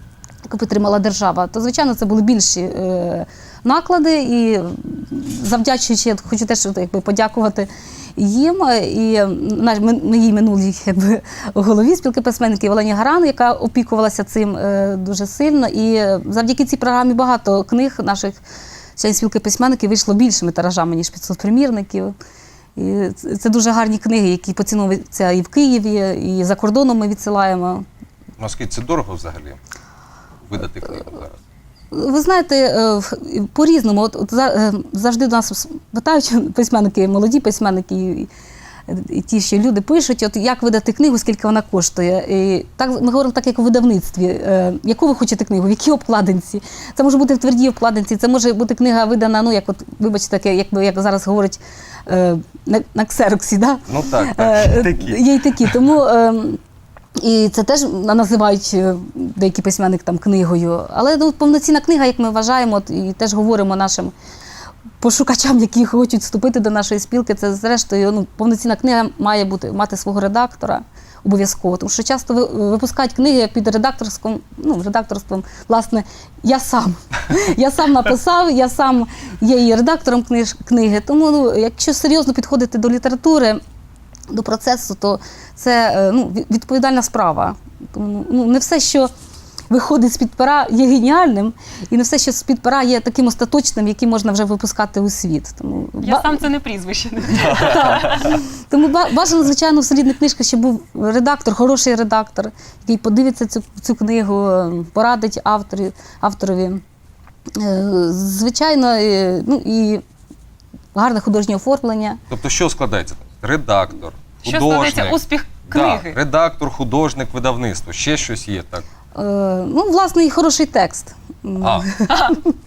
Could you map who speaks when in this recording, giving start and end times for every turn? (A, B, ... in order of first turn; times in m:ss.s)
0:00.4-0:18.4 A
0:19.0-0:22.2 A
0:22.8-0:27.8 A
0:28.4-0:29.6 B
0:30.5-0:31.4 B
0:31.9-0:38.3 A
0:38.9-0:56.6 A
0:53.9-0:55.8 B
0:57.2-1:04.1 A
1:05.0-1:23.6 A
1:24.3-1:29.1 A
1:29.7-1:36.4 A
1:36.0-1:38.4 C
1:37.4-1:46.8 A
1:47.6-1:50.0 A
1:51.0-1:52.2 A
1:52.3-1:58.8 B
1:54.4-1:56.2 C
1:59.2-2:02.5 A
2:01.6-2:01.9 B
2:02.1-2:02.4 C